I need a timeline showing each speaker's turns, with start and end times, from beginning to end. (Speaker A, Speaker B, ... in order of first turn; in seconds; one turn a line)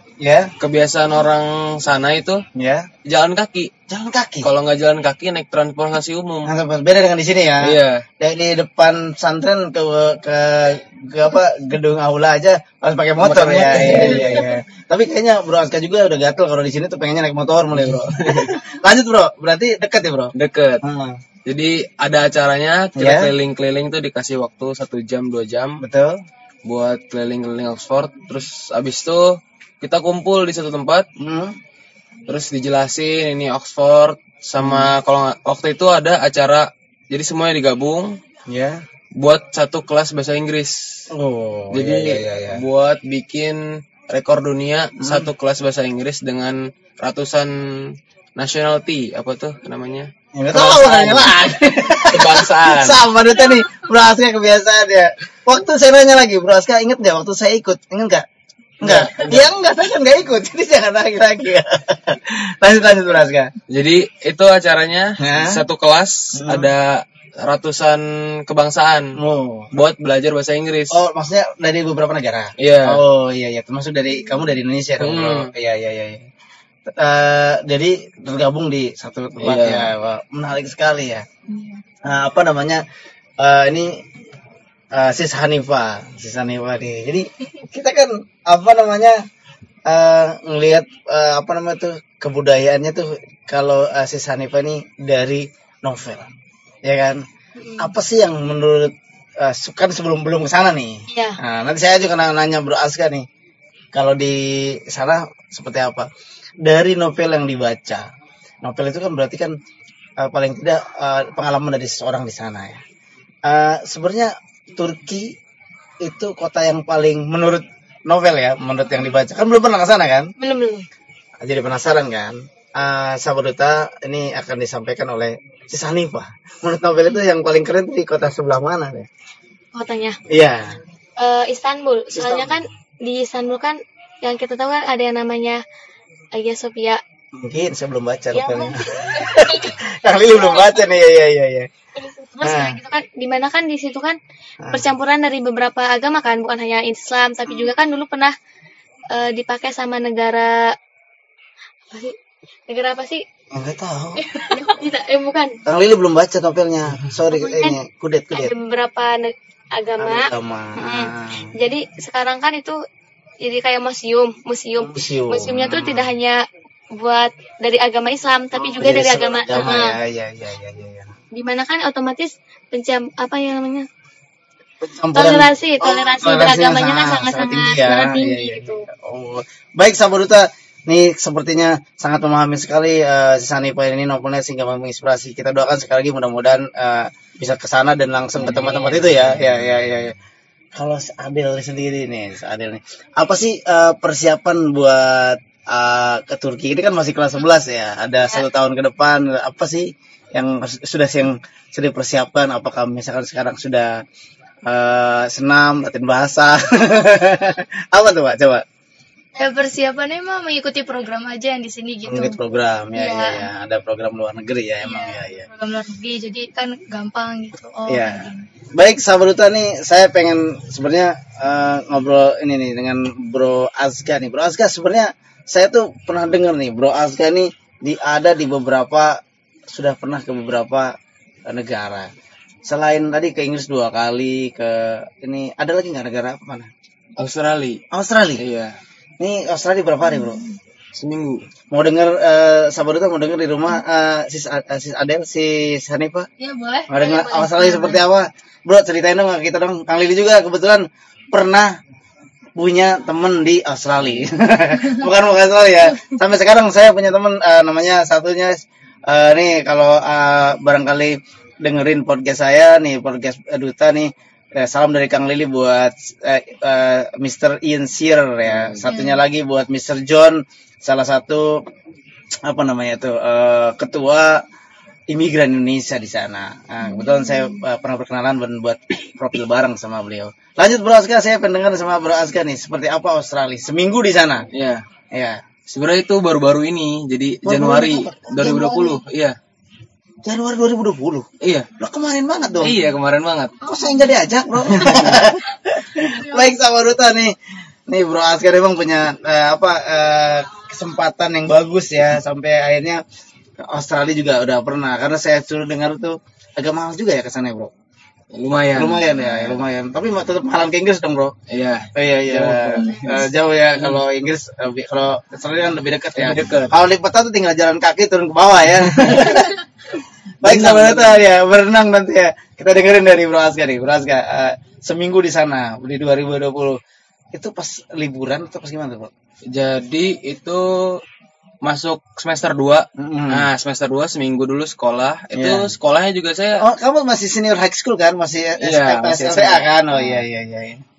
Speaker A: 0.2-0.5
Speaker B: 0.6-2.4
Speaker A: 2.5-2.9
Speaker B: 3.0-3.7
Speaker A: 3.9-4.5
Speaker B: 4.4-6.5
Speaker A: 6.5-21.2
Speaker B: 7.6-8.0
Speaker B: 13.2-14.5
Speaker B: 17.8-18.6
Speaker B: 20.3-20.8
Speaker B: 21.4-25.8
Speaker A: 23.0-23.3
Speaker A: 25.8-26.2
Speaker B: 26.6-31.1
Speaker A: 31.2-31.6
Speaker B: 32.3-38.1
Speaker A: 34.6-35.0
Speaker A: 38.5-38.8
Speaker B: 39.2-41.1
Speaker A: 41.1-42.6
Speaker B: 41.7-53.0
Speaker A: 45.0-45.3
Speaker A: 50.3-58.2
Speaker A: 58.8-63.5
Speaker B: 58.8-59.5
Speaker B: 63.7-69.2
Speaker A: 65.2-65.6
Speaker A: 66.3-66.7
Speaker A: 69.2-69.7
Speaker B: 69.7-71.0
Speaker A: 70.9-76.2
Speaker B: 72.6-73.0
Speaker B: 75.0-75.5
Speaker A: 76.8-81.2
Speaker B: 79.4-79.9
Speaker C: 81.5-81.8
Speaker A: 82.0-82.8
Speaker A: 83.4-84.0
Speaker A: 84.9-89.2
Speaker A: 89.9-96.3
Speaker A: 96.8-97.2
Speaker D: 97.6-97.9
Speaker A: 97.8-103.2
Speaker D: 101.1-101.4
Speaker A: 103.9-106.1
Speaker A: 106.6-108.1
Speaker A: 108.6-109.5
Speaker A: 110.2-112.8
Speaker A: 113.5-115.3
Speaker A: 116.0-120.3
Speaker D: 120.4-120.8
Speaker A: 121.4-129.1
Speaker D: 129.7-130.2
Speaker A: 130.3-130.8
Speaker D: 131.2-135.6
Speaker A: 132.1-132.6
Speaker D: 136.3-137.0
Speaker A: 137.3-141.7
Speaker D: 138.3-139.7
Speaker D: 140.2-140.8
Speaker D: 141.9-144.2
Speaker A: 142.4-142.8
Speaker D: 144.7-148.3
Speaker D: 149.1-150.7
Speaker D: 152.7-153.2
Speaker A: 153.5-154.2
Speaker C: 154.3-154.6
Speaker D: 154.5-155.5
Speaker A: 155.7-158.5
Speaker D: 157.3-157.8
Speaker D: 158.3-162.8
Speaker A: 160.0-161.5
Speaker D: 163.4-166.4
Speaker A: 164.8-166.1
Speaker D: 166.9-170.0
Speaker A: 168.6-171.1
Speaker D: 171.3-173.8
Speaker A: 174.8-190.2
Speaker D: 175.1-178.8
Speaker B: 188.4-189.7
Speaker A: 190.8-204.0
Speaker A: 204.7-208.6
Speaker C: 209.3-212.4
Speaker A: 212.1-215.5
Speaker C: 212.9-213.4
Speaker C: 214.8-218.4
Speaker A: 217.9-229.2
Speaker A: 229.7-230.9
Speaker A: 231.5-232.1
Speaker A: 232.7-236.7
Speaker B: 237.2-237.8
Speaker A: 237.9-238.4
Speaker B: 238.4-238.8
Speaker A: 239.2-240.4
Speaker C: 240.1-240.6
Speaker B: 240.9-241.4
Speaker A: 241.7-246.3
Speaker C: 246.4-248.0
Speaker A: 246.9-251.7
Speaker A: 252.6-271.6
Speaker B: 268.5-268.8
Speaker C: 268.9-269.2
Speaker A: 272.4-274.4
Speaker A: 275.1-284.4
Speaker C: 276.9-277.5
Speaker B: 284.5-284.8
Speaker A: 285.1-285.4
Speaker B: 285.7-289.4
Speaker A: 287.4-289.0
Speaker A: 290.2-291.3
Speaker B: 291.4-291.7
Speaker A: 291.8-292.8
Speaker B: 292.6-293.5
Speaker A: 293.6-297.3
Speaker C: 293.7-294.0
Speaker B: 294.6-295.2
Speaker C: 296.1-296.6
Speaker A: 297.9-303.0
Speaker A: 303.6-307.7
Speaker B: 308.3-309.6
Speaker A: 308.7-311.3
Speaker B: 311.5-314.0
Speaker A: 311.9-319.6
Speaker B: 316.2-316.8
Speaker B: 318.9-319.4
Speaker A: 320.4-326.8
Speaker B: 320.4-321.2
Speaker A: 327.3-329.1
Speaker B: 329.5-331.0
Speaker B: 331.6-336.6
Speaker A: 333.0-333.5
Speaker A: 335.3-335.7
Speaker A: 336.6-340.8
Speaker B: 338.6-340.2